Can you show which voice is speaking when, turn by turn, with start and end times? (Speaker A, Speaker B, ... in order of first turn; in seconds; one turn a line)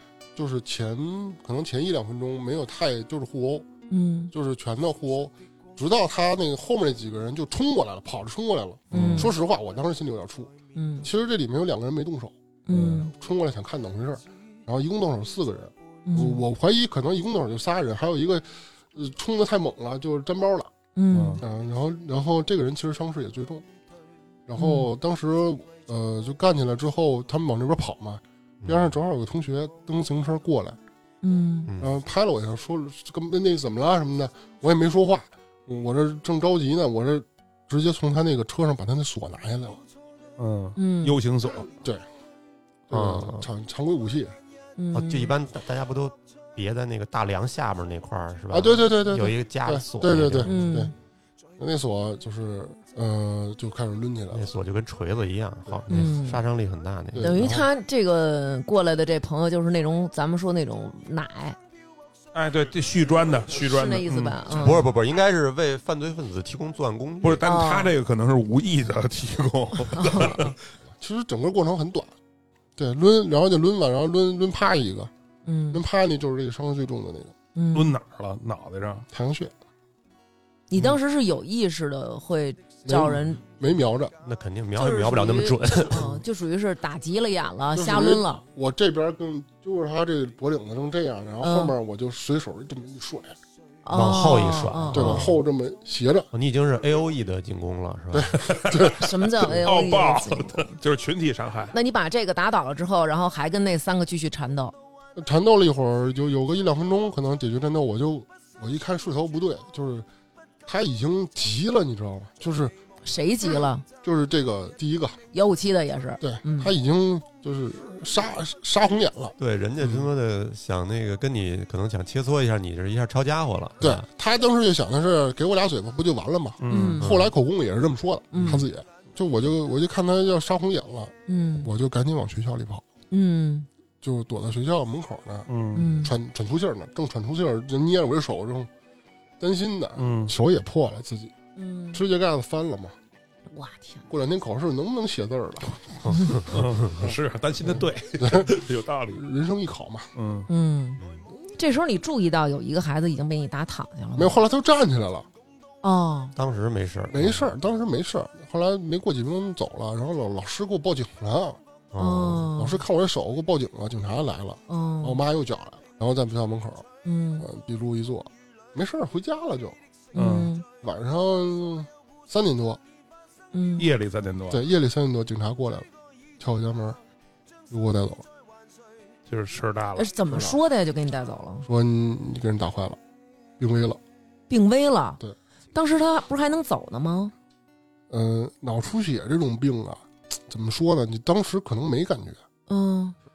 Speaker A: 0.3-3.7
Speaker B: 3.9-4.3
Speaker A: 4.3-12.3
Speaker C: 8.9-9.3
Speaker B: 8.9-9.3
Speaker B: 10.8-11.1
Speaker B: 12.7-13.1
Speaker C: 12.7-13.1
Speaker A: 13.0-20.7
Speaker B: 16.1-16.4
Speaker B: 20.9-21.4
Speaker C: 21.1-21.4
Speaker A: 21.4-23.6
Speaker A: 24.5-30.8
Speaker B: 24.6-24.9
Speaker D: 28.6-28.9
Speaker B: 31.2-31.7
Speaker D: 31.7-31.9
Speaker A: 31.8-39.8
Speaker C: 40.4-41.7
Speaker B: 40.8-41.2
Speaker A: 42.9-44.4
Speaker D: 42.9-43.5
Speaker B: 44.8-45.3
Speaker D: 44.9-50.5
Speaker A: 48.5-50.9
Speaker B: 50.5-50.9
Speaker A: 51.6-54.5
Speaker D: 54.3-57.4
Speaker B: 55.9-56.4
Speaker A: 57.1-57.7
Speaker B: 57.2-61.6
Speaker C: 62.3-64.7
Speaker B: 63.6-64.8
Speaker D: 64.5-67.5
Speaker C: 67.2-70.5
Speaker B: 67.4-68.0
Speaker B: 69.9-70.5
Speaker A: 71.0-72.1
Speaker A: 72.8-75.1
Speaker B: 75.5-75.8
Speaker A: 75.7-77.3
Speaker B: 77.5-78.0
Speaker C: 77.7-79.1
Speaker A: 79.1-79.5
Speaker B: 80.7-83.4
Speaker A: 82.8-84.1
Speaker D: 84.2-86.2
Speaker B: 84.8-88.4
Speaker A: 87.7-93.4
Speaker B: 91.4-91.7
Speaker B: 93.8-95.3
Speaker D: 93.9-95.4
Speaker A: 94.9-96.3
Speaker D: 96.3-98.4
Speaker A: 98.1-99.7
Speaker C: 98.5-101.7
Speaker B: 99.0-100.7
Speaker B: 101.7-104.8
Speaker A: 105.2-110.1
Speaker A: 110.7-112.8
Speaker B: 113.0-113.8
Speaker A: 114.0-115.2
Speaker B: 115.3-116.7
Speaker A: 116.2-120.1
Speaker D: 119.4-124.0
Speaker A: 123.8-132.8
Speaker C: 126.6-127.0
Speaker B: 126.7-127.1
Speaker D: 127.0-127.3
Speaker B: 128.3-128.7
Speaker B: 131.3-131.7
Speaker B: 133.1-133.7
Speaker A: 134.0-135.5
Speaker C: 135.5-136.0
Speaker B: 135.7-136.1
Speaker A: 136.0-138.7
Speaker A: 139.4-141.3
Speaker C: 140.0-140.3
Speaker B: 141.6-142.0
Speaker A: 141.9-143.0
Speaker B: 143.5-144.1
Speaker A: 144.1-145.8
Speaker D: 146.0-147.0
Speaker C: 146.5-149.2
Speaker A: 147.0-148.5
Speaker A: 149.1-150.1
Speaker C: 150.2-150.5
Speaker B: 150.5-154.4
Speaker D: 151.0-151.3
Speaker A: 154.2-155.3
Speaker B: 155.8-156.3
Speaker D: 156.4-157.5
Speaker A: 157.1-161.6
Speaker D: 161.9-162.5
Speaker B: 162.0-162.8
Speaker A: 162.5-166.9
Speaker B: 164.7-165.2
Speaker B: 167.0-167.5
Speaker A: 167.4-169.8
Speaker B: 170.1-170.7
Speaker C: 170.2-170.5
Speaker A: 170.8-172.8
Speaker B: 173.5-173.9
Speaker C: 173.8-174.6
Speaker A: 174.5-175.9
Speaker A: 176.4-177.0
Speaker A: 177.7-178.3
Speaker C: 179.3-180.1
Speaker B: 180.0-181.7
Speaker A: 180.3-180.6
Speaker A: 181.7-183.0
Speaker A: 183.6-184.0
Speaker B: 184.5-185.2
Speaker B: 185.7-187.3
Speaker A: 188.1-192.4
Speaker B: 192.7-193.2